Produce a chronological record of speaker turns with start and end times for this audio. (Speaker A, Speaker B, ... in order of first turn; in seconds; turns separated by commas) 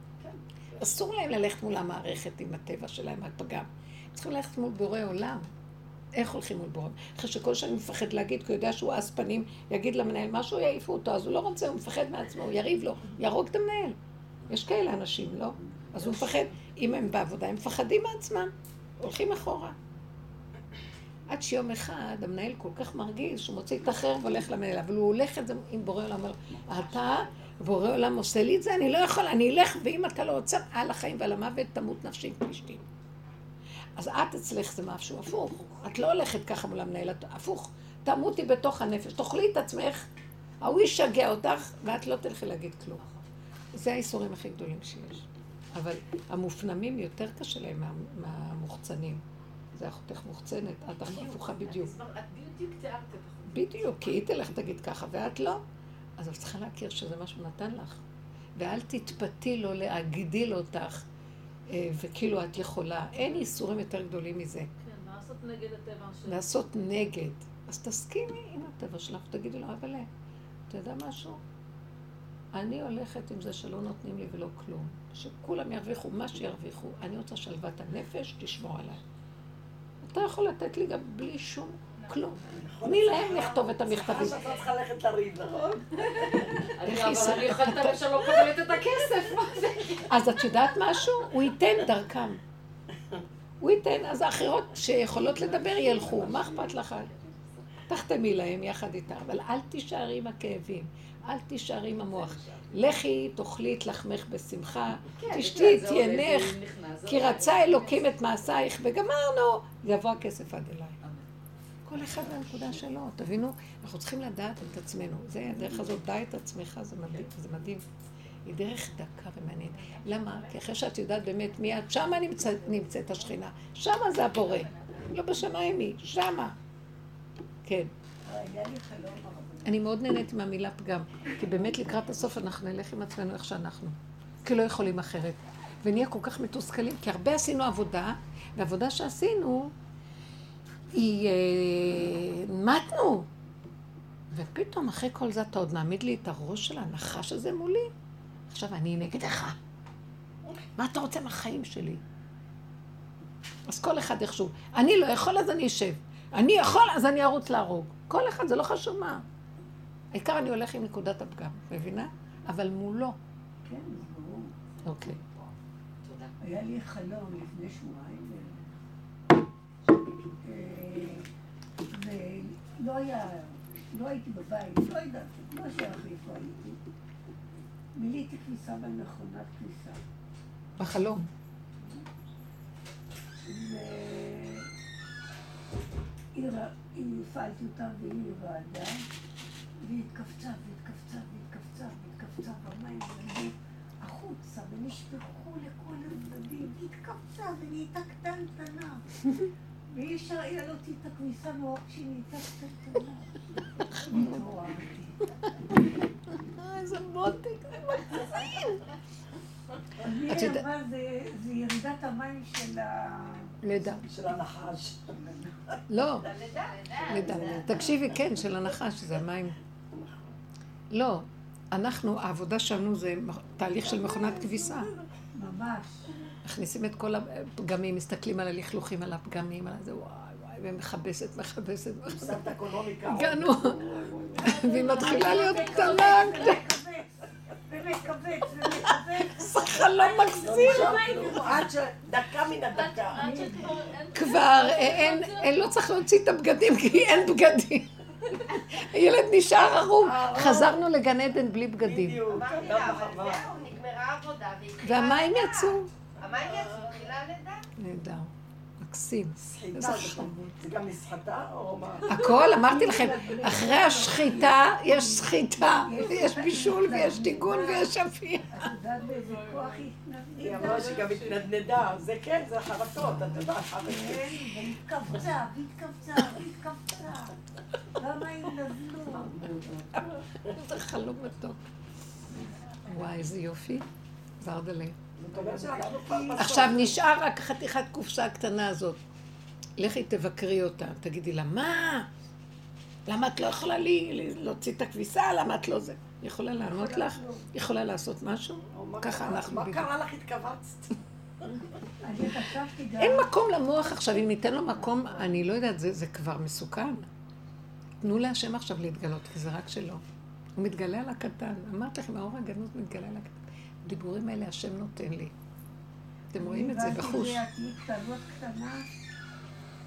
Speaker A: 0.2-0.8, Speaker B: 0.8-5.5, Speaker B: 6.2-19.8, Speaker B: 21.3-32.8, Speaker A: 26.6-27.6, Speaker B: 34.0-40.1, Speaker B: 40.6-43.0, Speaker A: 43.0-43.2, Speaker B: 43.7-49.2, Speaker B: 49.8-52.0, Speaker A: 51.0-54.5, Speaker B: 53.5-55.6, Speaker B: 56.2-58.0, Speaker B: 58.6-61.0, Speaker B: 61.7-64.7, Speaker C: 64.9-66.3, Speaker B: 66.2-70.1, Speaker B: 70.7-71.4, Speaker B: 72.5-79.0, Speaker B: 80.0-84.5, Speaker D: 82.5-86.4, Speaker A: 86.5-90.2, Speaker B: 86.8-88.5, Speaker B: 90.0-92.4, Speaker B: 93.6-97.1, Speaker A: 95.2-97.5, Speaker B: 97.9-111.0, Speaker A: 102.3-102.8, Speaker A: 105.2-108.1, Speaker B: 111.9-117.8, Speaker A: 111.9-112.8, Speaker E: 115.5-115.9, Speaker B: 118.5-126.5, Speaker E: 122.5-123.1, Speaker B: 127.7-127.9, Speaker E: 128.2-129.8, Speaker B: 129.7-139.7, Speaker B: 140.9-143.3, Speaker B: 144.3-147.9, Speaker B: 148.5-149.6, Speaker B: 150.8-152.0, Speaker B: 153.7-159.2, Speaker B: 160.1-163.2, Speaker E: 163.6-164.8, Speaker B: 164.8-165.2, Speaker A: 166.0-166.3, Speaker E: 166.4-168.7, Speaker E: 170.4-171.3, Speaker E: 171.9-176.8, Speaker E: 177.9-180.0, Speaker B: 180.8-181.3, Speaker E: 181.8-182.1, Speaker E: 183.4-184.7, Speaker E: 186.3-189.1, Speaker E: 189.8-199.1, Speaker E: 199.9-205.4, Speaker B: 206.4-208.9, Speaker E: 210.0-213.6, Speaker B: 210.3-210.7, Speaker B: 213.6-214.0, Speaker D: 214.0-215.8, Speaker B: 215.9-216.3, Speaker F: 216.1-217.8, Speaker B: 217.1-219.6, Speaker D: 217.1-217.8, Speaker D: 219.9-220.3, Speaker B: 220.9-224.9, Speaker E: 224.1-226.1, Speaker B: 226.4-232.5, Speaker D: 232.1-235.7, Speaker B: 233.1-233.8, Speaker E: 234.0-241.9, Speaker B: 234.4-236.7, Speaker B: 238.7-241.1, Speaker D: 240.4-244.0, Speaker E: 242.9-244.2, Speaker C: 243.9-245.3, Speaker B: 244.1-252.3, Speaker D: 250.0-250.8, Speaker D: 251.8-253.6, Speaker F: 252.3-257.6, Speaker B: 254.8-255.9, Speaker D: 256.2-256.9, Speaker B: 257.8-260.6, Speaker D: 259.4-262.3, Speaker B: 262.1-268.7, Speaker E: 262.5-268.0, Speaker E: 268.5-271.1, Speaker D: 270.4-274.4, Speaker E: 273.8-277.4, Speaker E: 278.0-280.0, Speaker B: 279.9-281.6, Speaker B: 282.9-283.9, Speaker B: 284.4-285.0, Speaker D: 285.2-287.0, Speaker E: 285.3-286.8, Speaker B: 286.4-289.0, Speaker B: 289.8-292.1, Speaker B: 293.1-299.9, Speaker E: 296.6-297.5, Speaker D: 298.7-301.0, Speaker E: 302.0-303.3, Speaker B: 303.0-307.1, Speaker E: 304.6-305.4, Speaker B: 308.0-310.0, Speaker B: 310.6-315.4, Speaker B: 316.3-317.4, Speaker E: 316.4-318.9